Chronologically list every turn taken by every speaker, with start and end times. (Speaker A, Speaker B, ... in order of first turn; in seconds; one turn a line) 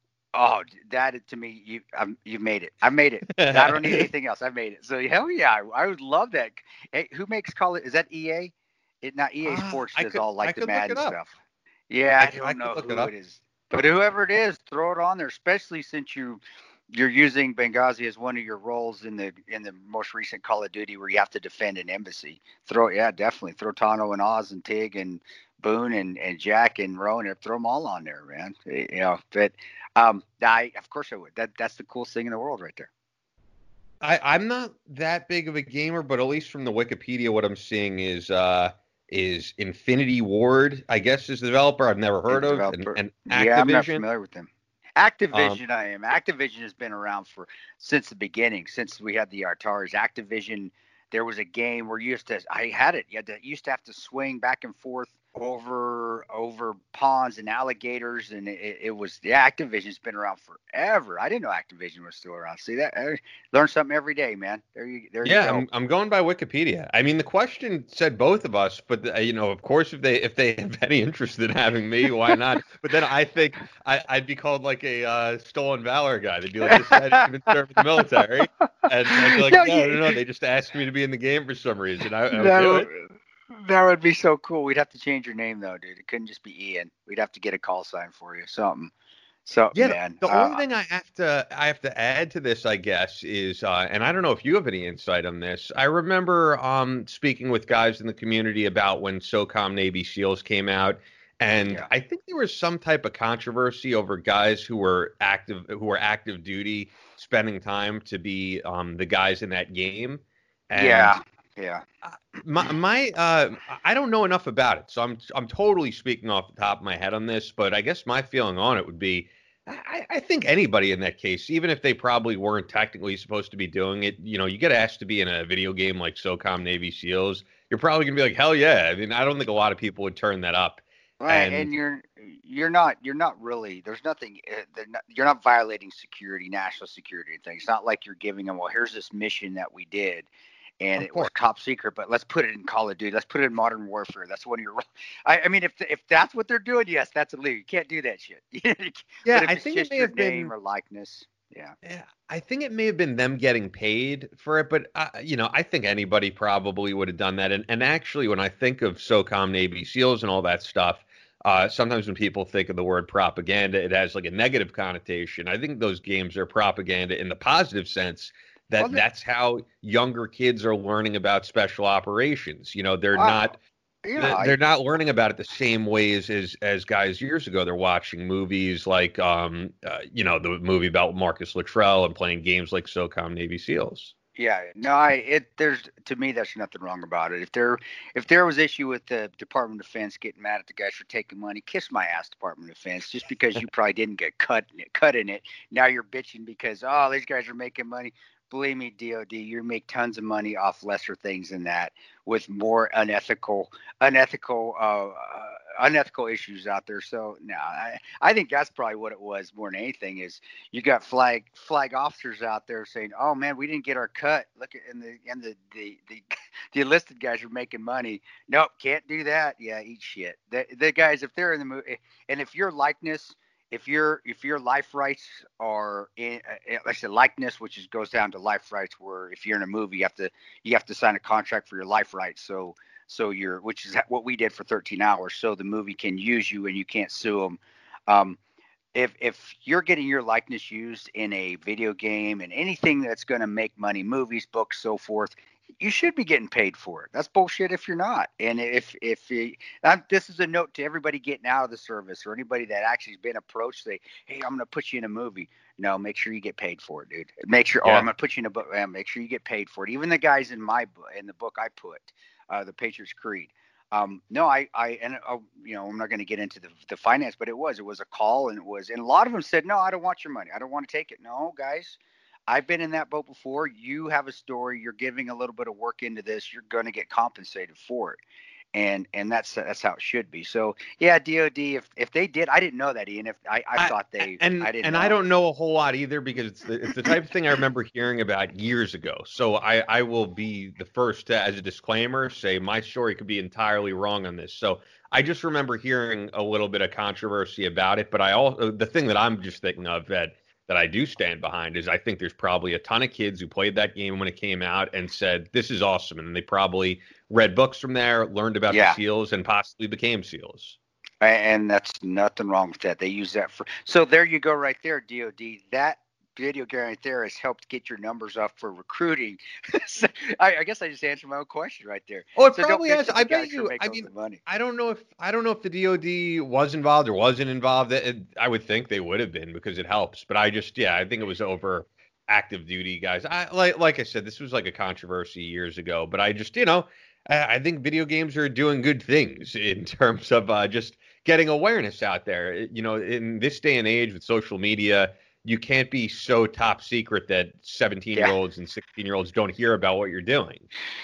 Speaker A: 0.3-11.3
Speaker B: 3.3-4.1
Speaker B: 9.4-11.2
Speaker A: 11.9-32.9
Speaker B: 12.2-13.1
Speaker B: 34.0-44.0
Speaker A: 42.3-65.6
Speaker B: 45.3-45.6
Speaker B: 65.2-82.9
Speaker A: 76.6-77.2
Speaker A: 78.8-80.1
Speaker A: 82.3-88.9
Speaker A: 89.4-90.6
Speaker B: 89.7-111.1
Speaker A: 110.7-111.8
Speaker B: 112.0-131.7
Speaker A: 131.2-140.3
Speaker A: 140.8-151.7
Speaker B: 141.0-141.3
Speaker B: 149.2-150.5
Speaker B: 151.8-173.6
Speaker A: 173.1-173.5
Speaker A: 174.0-174.5
Speaker B: 174.2-184.1
Speaker A: 184.3-238.4
Speaker A: 238.9-278.2
Speaker A: 278.7-285.1
Speaker B: 283.8-310.8
Speaker A: 308.7-309.0
Speaker A: 311.2-324.4
Speaker B: 322.4-350.7